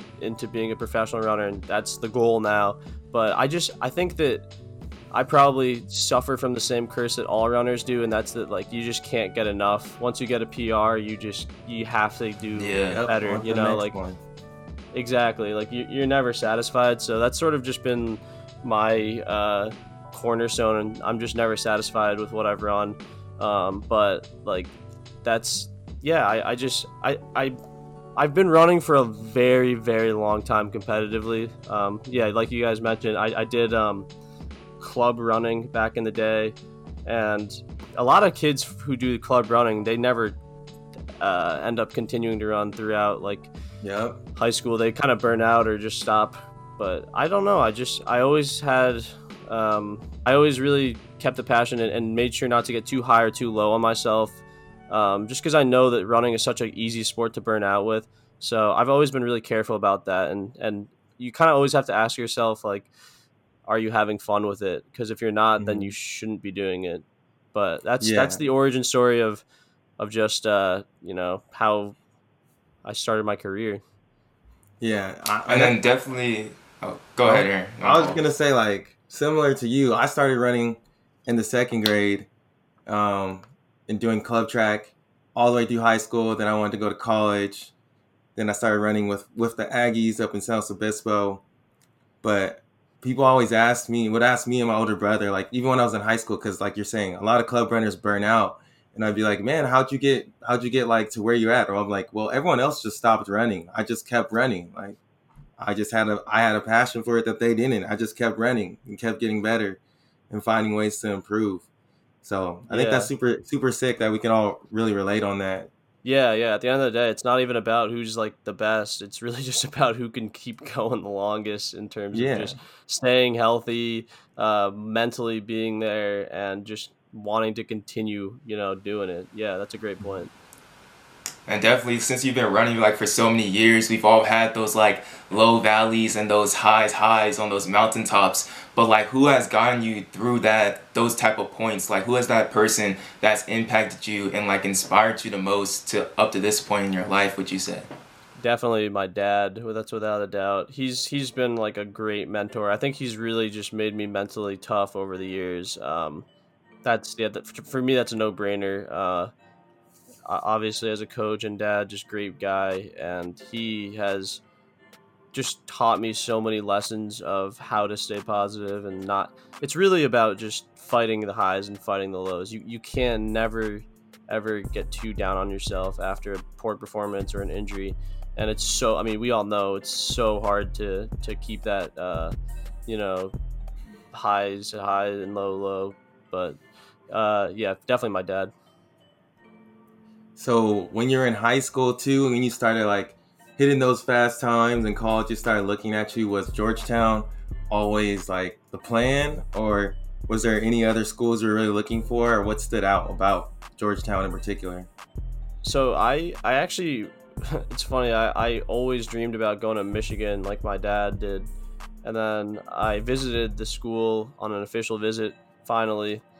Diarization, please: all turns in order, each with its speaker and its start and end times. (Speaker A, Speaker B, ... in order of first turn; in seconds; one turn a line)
Speaker A: 0.2-4.5
Speaker A: 5.1-13.9
Speaker B: 12.6-13.0
Speaker C: 12.9-14.2
Speaker A: 14.9-24.7
Speaker A: 25.2-27.6
Speaker A: 28.1-34.1
Speaker A: 34.8-40.4
Speaker A: 41.2-43.5
Speaker C: 43.8-44.2
Speaker A: 44.4-54.4
Speaker A: 54.9-62.9
Speaker A: 63.6-69.4
Speaker C: 65.6-65.9
Speaker C: 68.0-68.4
Speaker A: 70.0-72.0
Speaker A: 72.8-73.8
Speaker C: 74.8-75.7
Speaker B: 75.5-78.2
Speaker C: 77.2-82.3
Speaker C: 82.9-87.7
Speaker C: 88.3-91.4
Speaker C: 92.2-105.0
Speaker C: 105.6-111.6
Speaker C: 112.2-115.7
Speaker A: 112.7-113.1
Speaker A: 116.0-130.3
Speaker C: 122.1-122.6
Speaker B: 131.5-147.9
Speaker A: 148.4-156.3
Speaker A: 156.8-159.3
Speaker A: 160.3-164.4
Speaker A: 165.3-182.3
Speaker A: 182.9-183.3
Speaker A: 184.1-186.6
Speaker A: 187.1-188.5
Speaker C: 190.4-204.9
Speaker A: 205.6-211.5
Speaker A: 212.0-216.2